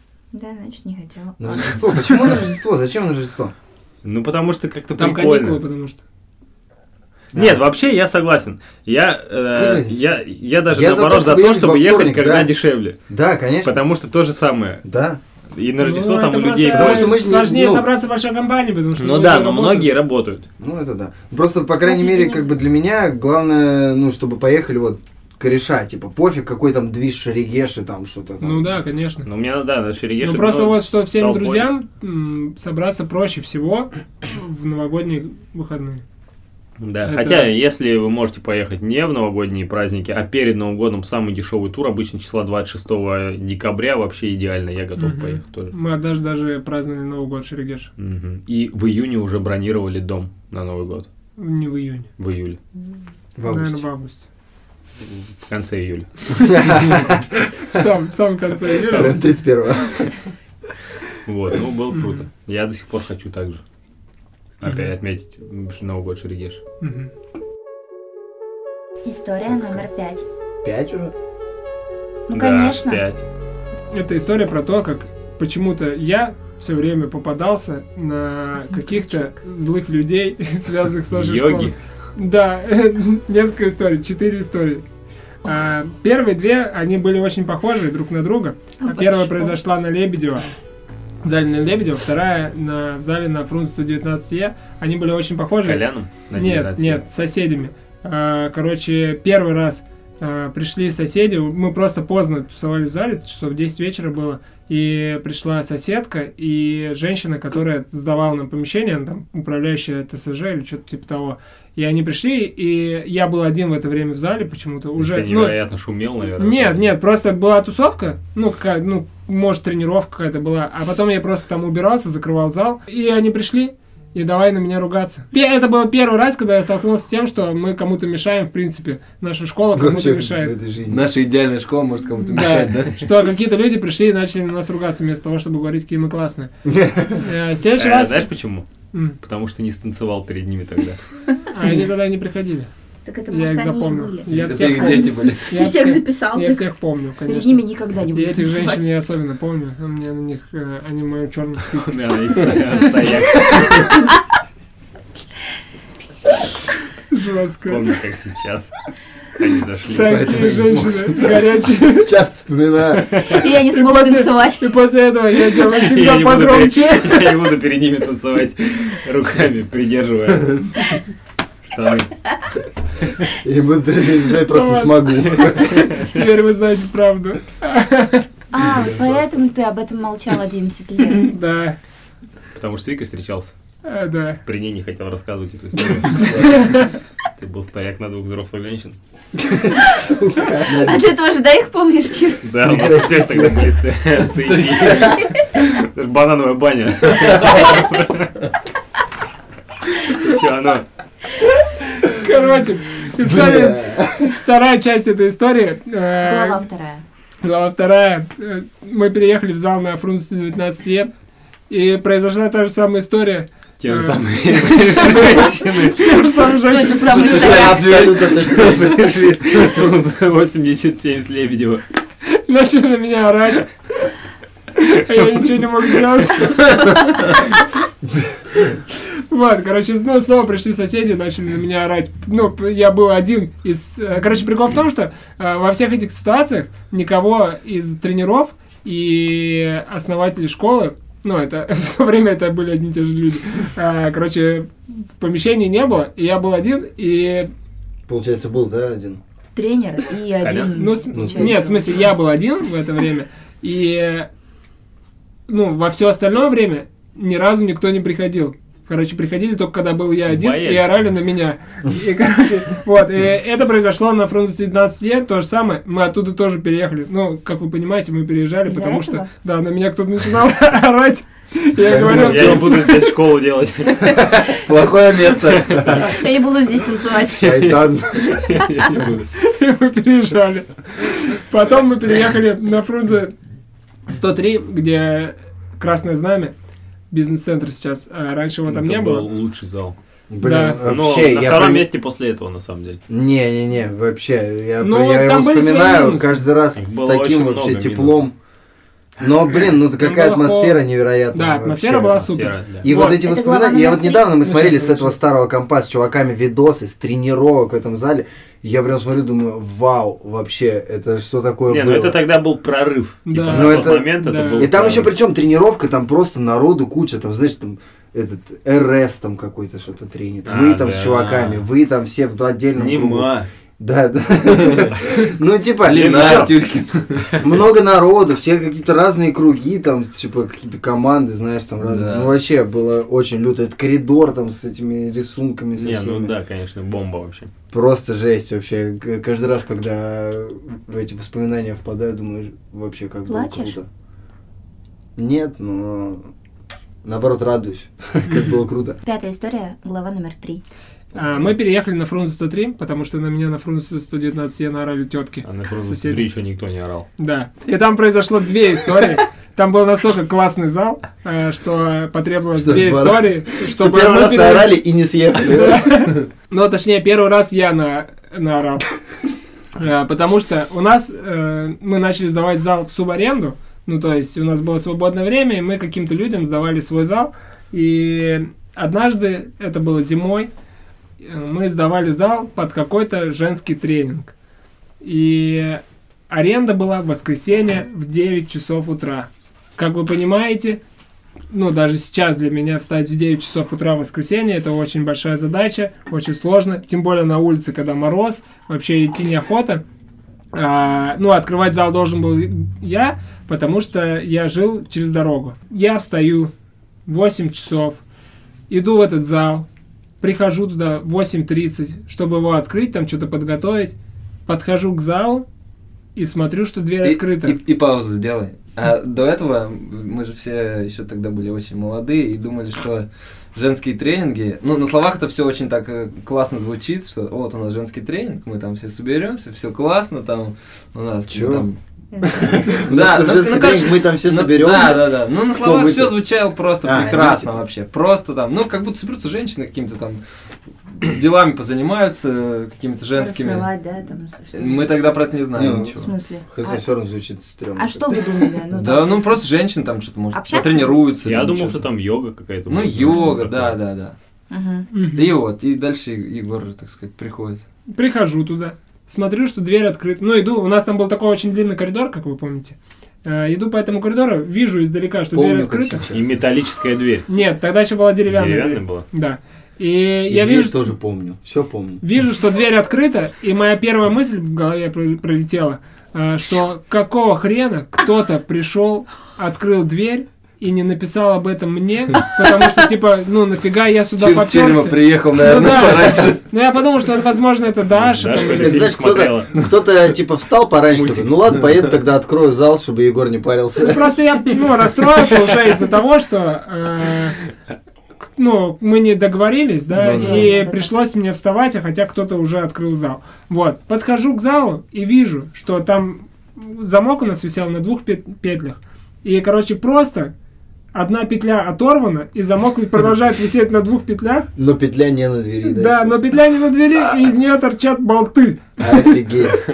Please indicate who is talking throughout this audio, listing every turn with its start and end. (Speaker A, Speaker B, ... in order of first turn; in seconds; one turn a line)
Speaker A: 0.3-1.8
Speaker B: 1.4-3.5
Speaker C: 4.0-5.6
Speaker D: 5.0-6.0
Speaker C: 7.3-13.0
Speaker B: 7.3-7.6
Speaker B: 9.5-10.0
Speaker B: 10.7-12.5
Speaker B: 13.1-13.8
Speaker C: 13.6-14.8
Speaker B: 14.8-15.2
Speaker C: 15.5-17.2
Speaker D: 15.8-19.9
Speaker B: 16.7-17.9
Speaker C: 19.0-20.5
Speaker B: 20.6-28.7
Speaker A: 21.8-22.5
Speaker D: 28.4-29.3
Speaker C: 29.2-31.7
Speaker D: 30.2-36.0
Speaker C: 36.8-45.7
Speaker D: 37.0-37.5
Speaker D: 45.0-47.9
Speaker C: 48.0-51.1
Speaker D: 51.4-52.1
Speaker C: 52.2-52.6
Speaker B: 53.4-53.8
Speaker D: 53.5-54.2
Speaker C: 55.0-56.1
Speaker B: 56.4-57.5
Speaker D: 57.7-59.2
Speaker C: 58.9-59.1
Speaker B: 58.9-60.1
Speaker C: 61.2-63.6
Speaker D: 61.9-62.2
Speaker C: 64.6-66.6
Speaker D: 66.8-67.1
Speaker A: 69.0-70.2
Speaker B: 69.5-69.8
Speaker B: 70.6-71.1
Speaker A: 72.3-73.0
Speaker C: 72.3-73.2
Speaker D: 73.9-84.8
Speaker C: 81.1-81.7
Speaker D: 85.4-90.5
Speaker A: 88.8-89.6
Speaker D: 91.2-115.5
Speaker C: 95.5-97.0
Speaker C: 115.0-116.9
Speaker D: 116.4-130.5
Speaker B: 129.7-131.1
Speaker E: 130.9-133.2
Speaker D: 132.3-136.5
Speaker B: 136.6-137.2
Speaker D: 137.1-138.3
Speaker C: 137.8-138.7
Speaker C: 139.2-141.0
Speaker D: 141.5-142.7
Speaker A: 143.1-146.7
Speaker D: 143.3-152.8
Speaker E: 144.3-145.5
Speaker A: 147.2-148.9
Speaker C: 151.7-154.0
Speaker D: 157.1-157.9
Speaker C: 157.7-158.7
Speaker C: 159.3-160.3
Speaker D: 159.9-162.1
Speaker E: 160.0-161.4
Speaker B: 162.0-163.2
Speaker A: 163.2-164.7
Speaker D: 163.7-167.4
Speaker C: 165.6-170.9
Speaker C: 171.6-172.1
Speaker B: 173.4-175.8
Speaker D: 174.5-178.3
Speaker A: 178.5-181.3
Speaker D: 181.1-181.8
Speaker C: 182.5-183.5
Speaker D: 183.8-184.4
Speaker C: 184.4-188.9
Speaker D: 186.2-186.9
Speaker B: 189.4-191.0
Speaker E: 190.7-191.0
Speaker A: 190.8-192.5
Speaker C: 192.4-198.3
Speaker B: 192.6-193.7
Speaker E: 194.3-195.2
Speaker C: 200.1-200.8
Speaker D: 201.9-206.6
Speaker B: 203.2-204.3
Speaker A: 206.2-207.0
Speaker D: 207.4-211.1
Speaker D: 211.7-217.6
Speaker C: 213.8-216.3
Speaker A: 216.6-218.1
Speaker E: 217.1-218.8
Speaker B: 217.2-219.1
Speaker C: 218.4-221.8
Speaker D: 222.2-223.7
Speaker D: 224.7-227.6
Speaker D: 229.0-247.5
Speaker B: 248.1-249.2
Speaker A: 249.5-252.1
Speaker C: 250.4-250.7
Speaker D: 250.7-254.3
Speaker B: 251.1-251.6
Speaker D: 255.5-273.0
Speaker C: 260.3-261.1
Speaker A: 268.6-269.3
Speaker B: 271.9-272.8
Speaker C: 272.1-274.2
Speaker E: 274.5-276.0
Speaker A: 276.0-277.6
Speaker B: 277.4-278.4
Speaker C: 277.4-279.2
Speaker D: 279.4-283.3
Speaker D: 284.1-286.5
Speaker D: 287.1-289.2
Speaker C: 288.7-289.9
Speaker B: 290.3-291.9
Speaker D: 290.4-290.8
Speaker C: 290.8-293.0
Speaker B: 293.1-298.3
Speaker D: 294.8-296.4
Speaker C: 296.8-298.2
Speaker B: 299.2-302.2
Speaker D: 299.7-300.8
Speaker D: 301.3-303.2
Speaker C: 302.2-302.8
Speaker B: 302.8-312.2
Speaker A: 303.0-304.4
Speaker D: 304.4-305.2
Speaker C: 311.7-315.1
Speaker D: 313.2-314.7
Speaker B: 313.5-326.6
Speaker C: 320.4-321.6
Speaker C: 322.8-323.5
Speaker E: 325.8-327.4
Speaker C: 326.0-326.5
Speaker B: 327.4-336.3
Speaker E: 331.8-332.3
Speaker C: 335.8-337.5
Speaker B: 337.7-343.9
Speaker A: 343.3-343.8
Speaker B: 345.1-346.3
Speaker B: 347.0-349.0
Speaker A: 349.0-350.6
Speaker D: 351.1-356.2
Speaker C: 355.4-357.1
Speaker D: 357.2-364.8
Speaker B: 362.5-366.0
Speaker D: 365.5-368.9
Speaker D: 369.8-380.5
Speaker D: 381.2-384.3
Speaker D: 385.0-390.8
Speaker D: 391.5-399.8
Speaker D: 400.5-406.5
Speaker D: 407.1-408.0
Speaker D: 408.7-409.6
Speaker D: 410.2-413.9
Speaker D: 414.5-415.4
Speaker D: 416.1-417.6
Speaker E: 417.0-431.8
Speaker B: 431.3-431.7
Speaker A: 432.1-432.6
Speaker B: 432.2-436.2
Speaker E: 432.7-440.2
Speaker B: 436.8-437.5
Speaker E: 441.0-443.7
Speaker A: 443.1-445.1
Speaker E: 444.5-446.1
Speaker B: 445.5-448.5
Speaker A: 445.9-446.8
Speaker A: 447.8-449.4
Speaker E: 448.7-451.8
Speaker A: 450.3-451.1
Speaker C: 451.2-453.8
Speaker E: 452.7-454.1
Speaker A: 454.5-454.9
Speaker D: 454.9-455.2
Speaker E: 455.1-457.6
Speaker D: 457.9-466.0
Speaker B: 465.3-466.4
Speaker C: 466.1-467.3
Speaker D: 467.3-470.8
Speaker C: 468.3-469.1
Speaker B: 470.3-472.0
Speaker D: 472.0-488.9
Speaker E: 484.2-486.4
Speaker C: 488.0-489.7
Speaker B: 488.4-494.1
Speaker C: 490.9-491.3
Speaker D: 493.8-497.4
Speaker D: 498.4-510.3
Speaker B: 500.0-500.5
Speaker A: 500.0-500.9
Speaker D: 510.9-514.5
Speaker B: 514.5-516.1
Speaker D: 515.6-519.2
Speaker B: 518.8-519.6